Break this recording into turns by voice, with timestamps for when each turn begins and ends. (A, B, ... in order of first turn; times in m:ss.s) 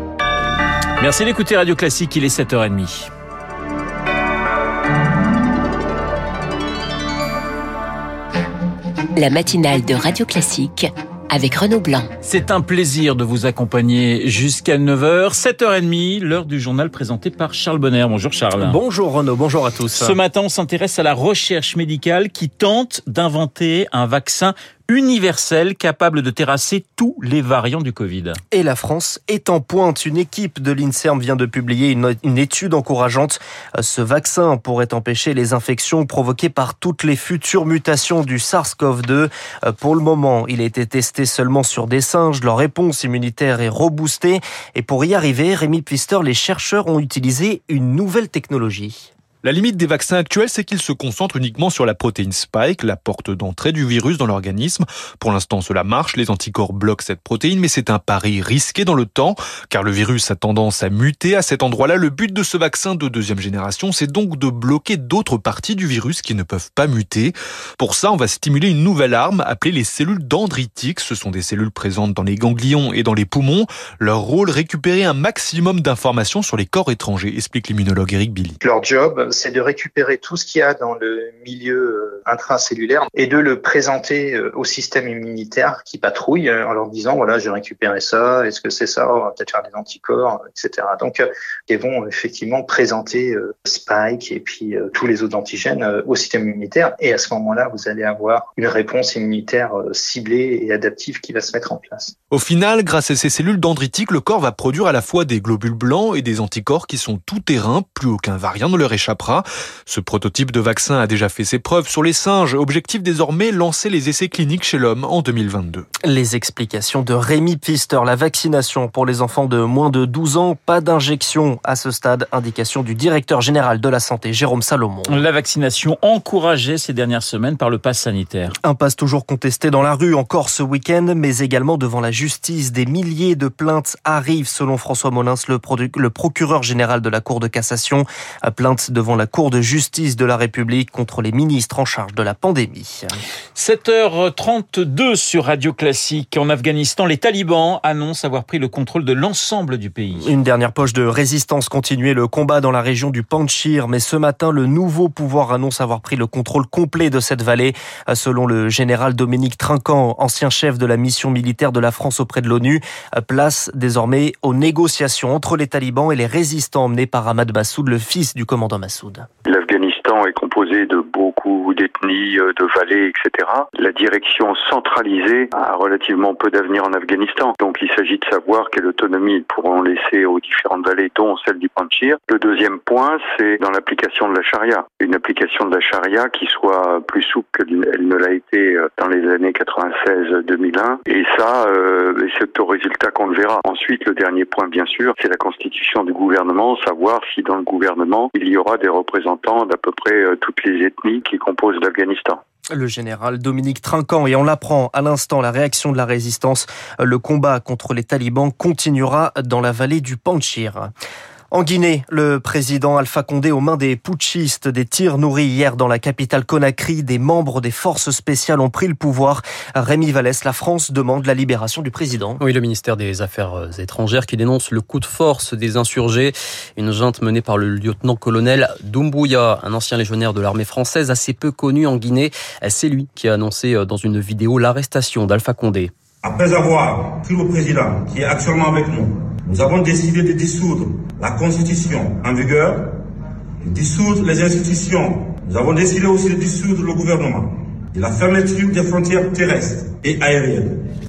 0:01.0-0:03.1 A
0:09.2-0:12.1 B
0:12.2-0:18.8 A
0:18.6-0:20.2 C
0:19.9-0:28.4 A
0:28.5-0:49.1 C
0:49.4-1:18.6 D
1:18.7-1:42.1 E
1:42.3-1:55.8 D
1:56.0-2:05.2 C
2:05.1-2:08.5 A
2:08.6-2:23.2 C
2:23.5-2:30.3 A
2:30.2-2:49.2 C
2:49.4-3:22.4 F
3:22.7-3:30.9 C
3:31.5-3:42.4 C
3:42.4-3:55.9 G
3:56.2-4:02.9 H
4:03.6-4:10.8 H